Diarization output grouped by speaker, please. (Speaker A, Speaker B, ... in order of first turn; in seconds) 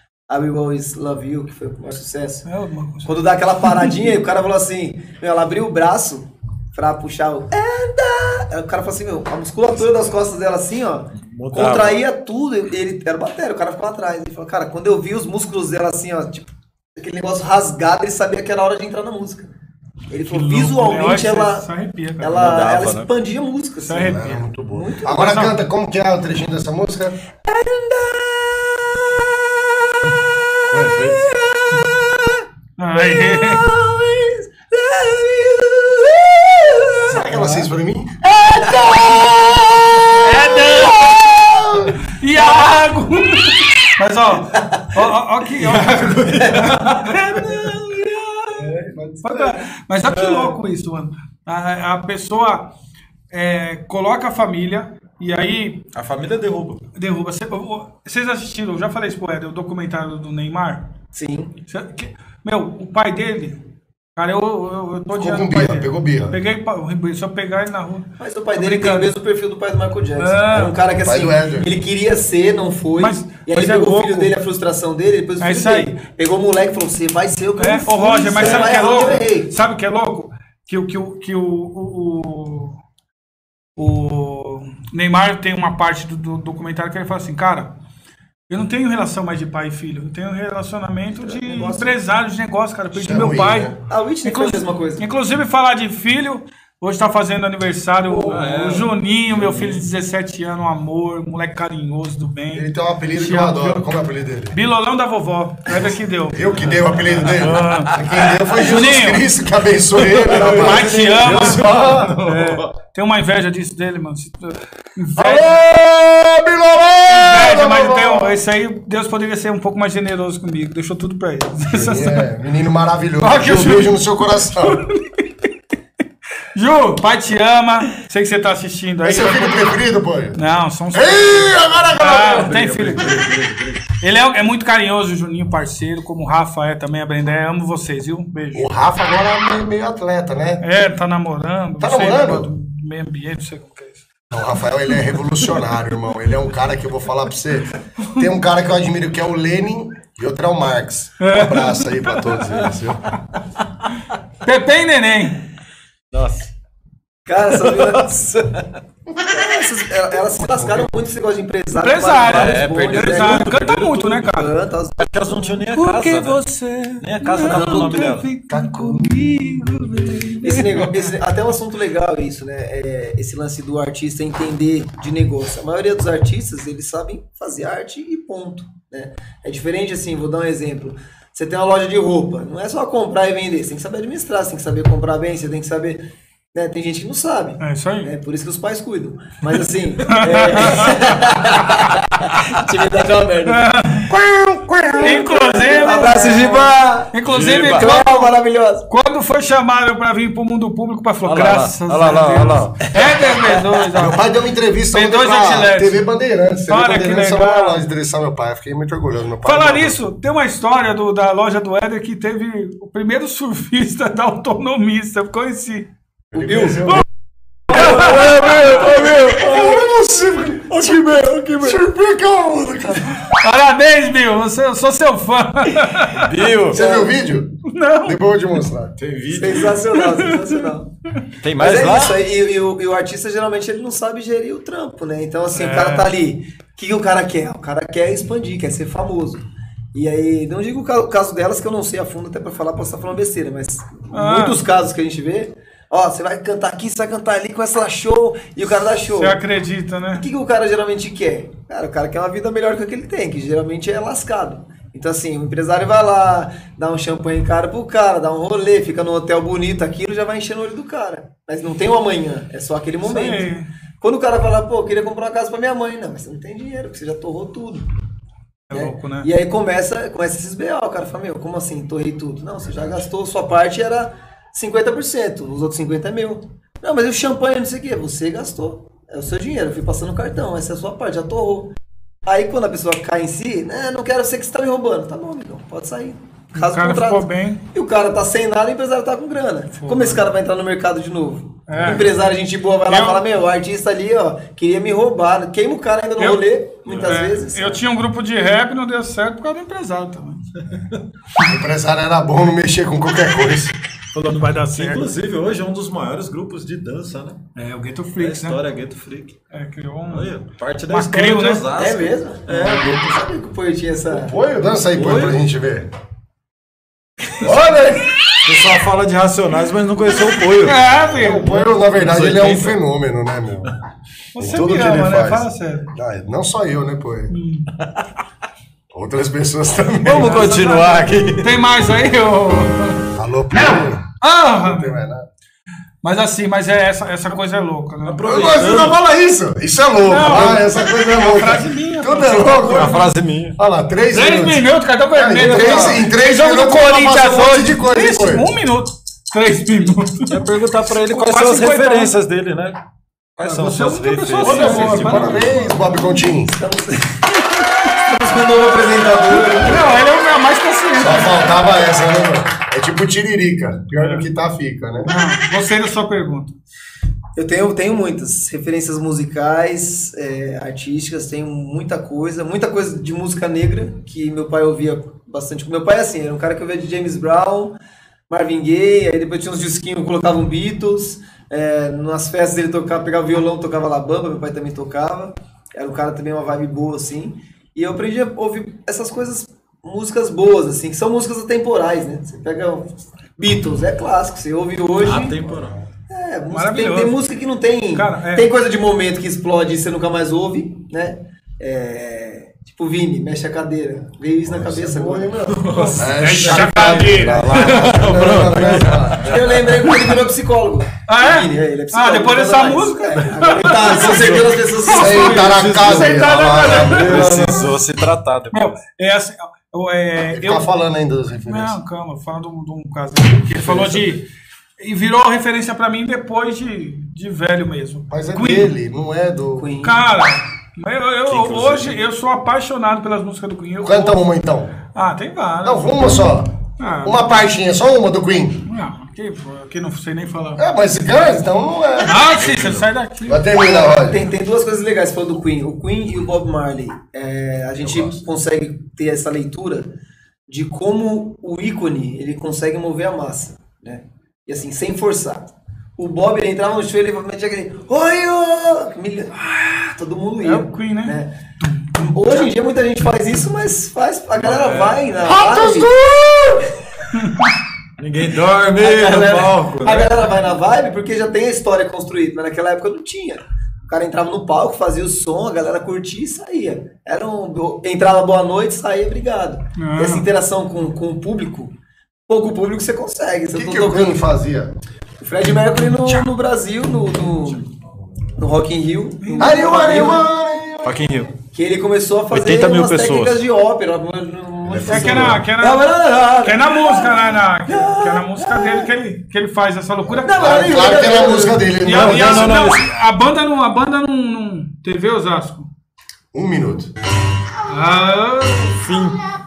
Speaker A: 0.3-2.5, 3.0-19.5, 20.1-21.7, 22.2-25.4, 27.4-37.7, 38.6-39.1, 44.5-44.9, 46.3-46.8, 61.1-61.5, 68.2-79.5, 91.2-91.9, 93.8-95.1, 157.3-158.6, 159.3-165.6, 170.4-186.0, 186.5-193.8, 194.8-197.1, 197.7-198.9, 203.0-203.6, 226.8-227.1, 229.3-230.9, 231.6-239.4, 239.9-249.4, 250.1-267.9, 268.7-281.7, 282.3-297.8, 311.8-314.4, 330.7-331.0, 355.6-357.3, 357.9-359.9, 367.4-377.8, 378.3-395.4, 396.1-405.8, 409.2-415.6, 429.6-430.0, 443.5-449.9, 450.5-455.5, 456.0-461.3, 462.0-465.9, 468.8-481.7, 482.3-484.2, 485.2-487.7, 488.4-490.3, 491.5-498.9, 500.2-501.6
Speaker B: 2.5-3.9, 20.3-22.5, 23.9-24.4, 25.1-25.6, 32.8-33.7, 40.2-41.3, 42.1-47.8, 49.2-52.7, 53.3-55.9, 57.0-60.9, 61.7-63.6, 64.2-69.1, 70.2-70.8, 73.0-74.3, 75.4-76.0, 77.6-82.8, 83.8-87.7, 88.5-103.9, 104.5-108.0, 108.5-109.3, 110.2-115.6, 117.1-122.3, 123.2-124.0, 124.7-125.2, 126.5-129.8, 130.4-133.2, 134.0-138.7, 140.6-144.1, 151.2-151.9, 154.4-155.4, 161.8-164.6, 165.7-171.1, 187.6-188.1, 190.1-191.0, 193.5-194.1, 194.9-204.2, 204.9-206.0, 206.7-207.8, 209.4-215.9, 216.4-217.0, 217.7-218.9, 223.2-226.4, 227.7-228.2, 229.9-230.8, 235.5-236.1, 244.1-244.6, 249.1-250.3, 263.0-263.7, 268.7-269.3, 286.6-287.6, 289.8-290.3, 291.7-292.1, 292.9-293.2, 296.2-296.4, 297.0-300.5, 304.1-305.0, 307.6-308.6, 309.5-310.4, 310.9-311.7, 320.6-321.6, 324.3-325.9, 327.3-327.7, 330.1-333.1, 333.7-335.0, 336.0-338.3, 340.1-342.9, 344.1-350.4, 351.1-352.1, 353.4-355.7, 359.5-361.6, 364.0-364.3, 365.1-366.5, 396.5-397.3, 397.9-398.5, 405.7-407.8, 411.1-417.7, 418.5-420.6, 421.5-424.3, 424.8-428.7, 429.8-434.2, 434.9-436.3, 436.8-437.3, 438.7-440.6, 442.0-443.5, 460.4-462.5, 467.2-467.5, 479.8-480.3, 485.5-486.3, 487.0-487.6, 489.2-490.1, 494.9-501.1, 501.8-505.7, 507.7-508.8
Speaker C: 11.2-12.0, 22.3-23.1, 45.6-48.4, 50.1-50.6, 56.0-56.9, 98.2-99.9, 106.7-108.6, 110.1-112.7, 132.3-133.8, 156.1-156.5, 157.7-158.1, 162.3-164.2, 165.0-166.4, 167.0-168.3, 197.2-197.9, 201.2-202.8, 217.7-219.8, 220.7-221.8, 226.1-226.8, 229.0-229.7, 231.4-232.2, 296.9-297.3, 300.7-301.0, 304.7-307.4, 308.2-309.4, 310.1-312.9, 314.9-315.4, 318.4-320.8, 321.6-322.8, 330.0-331.5, 338.1-339.0, 342.5-343.6, 350.3-352.8, 353.4-355.5, 395.0-395.8, 405.6-409.8, 413.4-418.7, 423.5-424.1, 431.3-432.0, 442.4-442.8, 464.4-465.7, 468.0-470.3, 490.8-491.3, 492.3-493.4, 501.9-502.9, 508.8-509.2
Speaker D: 24.0-27.2, 30.7-31.2, 37.1-42.0, 48.5-49.6, 65.1-66.4, 71.0-71.7, 92.9-93.7, 102.5-104.6, 106.3-112.2, 115.2-118.4, 121.6-124.8, 129.0-130.4, 130.9-132.7, 138.5-140.7, 141.8-142.5, 144.3-153.2, 160.4-160.9, 167.5-167.9, 168.5-170.3, 204.0-210.0, 216.3-217.1, 217.7-221.0, 221.6-223.2, 226.7-229.0, 301.5-303.8, 314.1-315.9, 317.4-318.1, 321.1-323.7, 324.4-327.3, 328.9-330.5, 333.1-335.3, 338.3-348.5, 354.4-356.5, 360.9-365.1, 404.4-409.4, 414.9-417.6, 420.3-421.8, 428.1-429.7, 433.8-434.7, 435.6-438.6, 440.6-442.4, 443.3-444.3, 447.8-448.2, 465.4-466.2, 483.5-484.8, 489.4-491.1, 494.6-495.4, 500.3-502.7, 506.3-506.9